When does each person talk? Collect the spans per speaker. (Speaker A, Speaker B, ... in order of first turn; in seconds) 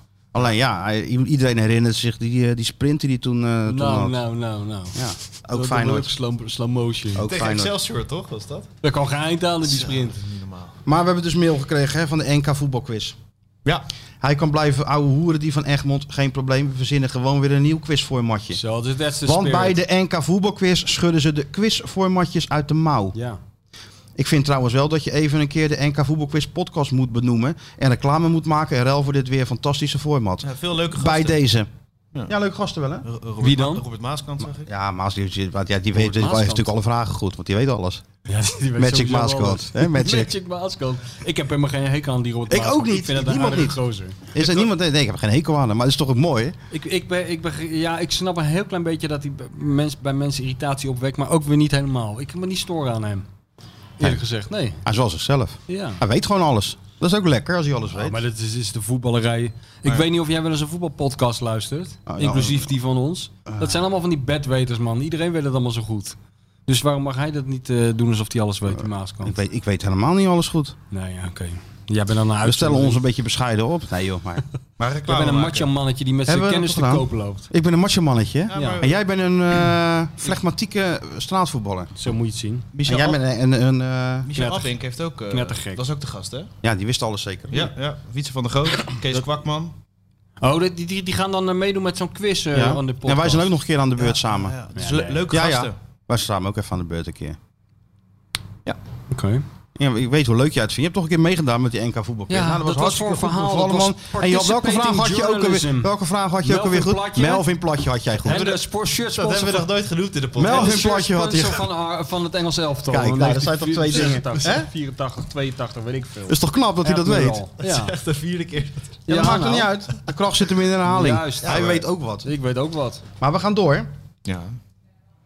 Speaker A: 0.3-4.2, 4.9-6.1, 7.1-7.8, 10.8-13.2, 14.2-18.6, 19.2-23.1, 24.1-31.7, 32.3-33.0, 34.7-38.0, 38.8-40.3, 42.5-43.8, 44.3-46.6, 54.8-58.2, 62.1-62.7, 63.5-63.8, 69.2-70.7, 72.4-74.4, 76.3-82.0, 82.8-84.3, 86.6-87.7, 92.5-94.5, 95.3-97.4, 99.8-108.5, 110.3-111.7, 112.9-114.7, 116.3-117.4, 119.1-122.3, 123.2-123.9
Speaker B: 3.7-5.0, 5.5-7.2, 8.8-10.1, 18.5-19.8, 23.1-23.4, 33.4-33.8, 35.9-36.7, 38.2-44.2, 46.7-53.2, 54.0-54.8, 55.7-56.0, 57.9-66.2, 66.7-69.3, 70.9-73.0, 75.1-77.5, 78.5-78.8, 82.0-82.7, 84.3-84.7, 85.3-85.8, 90.4-93.5, 94.7-95.2, 99.1-99.4, 102.3-107.5, 108.2-109.7, 110.4-117.9, 119.1-119.7, 120.9-123.0
Speaker C: 7.2-8.7, 9.7-10.8, 30.4-31.4, 33.0-34.7, 74.8-75.7, 78.5-79.0, 82.7-83.2, 84.2-86.5, 87.5-89.7, 94.0-95.7, 108.3-110.8, 113.9-114.6, 117.6-119.0, 124.2-124.5